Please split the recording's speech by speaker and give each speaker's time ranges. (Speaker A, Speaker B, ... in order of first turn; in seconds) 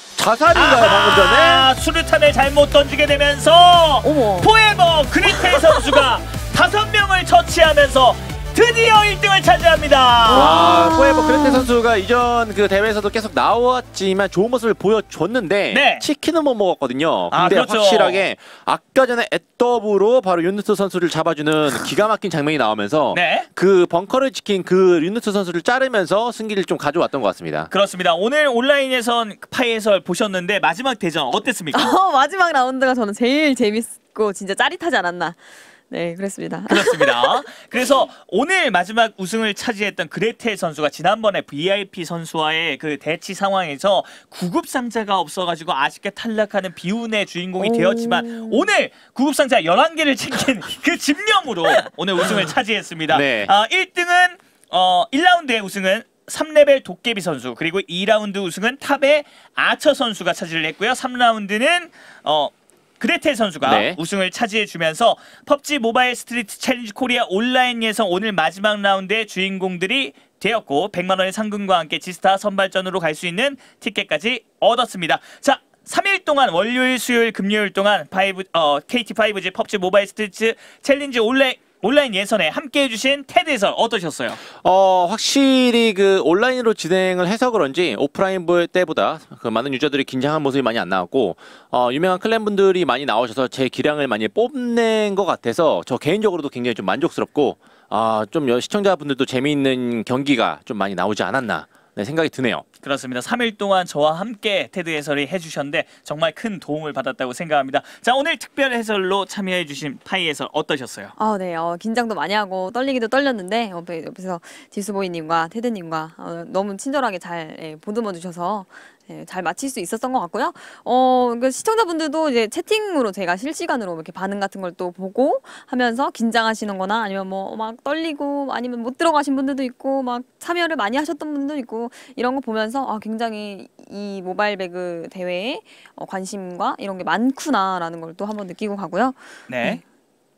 Speaker A: 0.2-1.7, 10.3-27.7, 53.1-53.5, 63.6-64.0, 84.6-102.6
Speaker B: 0.5-10.7, 15.7-16.1, 17.3-18.2, 23.1-23.5, 27.7-31.9, 36.7-84.4, 102.8-111.1, 139.5-139.8
Speaker C: 4.0-4.5, 5.2-6.1, 10.3-11.7, 31.7-37.7, 47.6-48.7, 111.2-139.8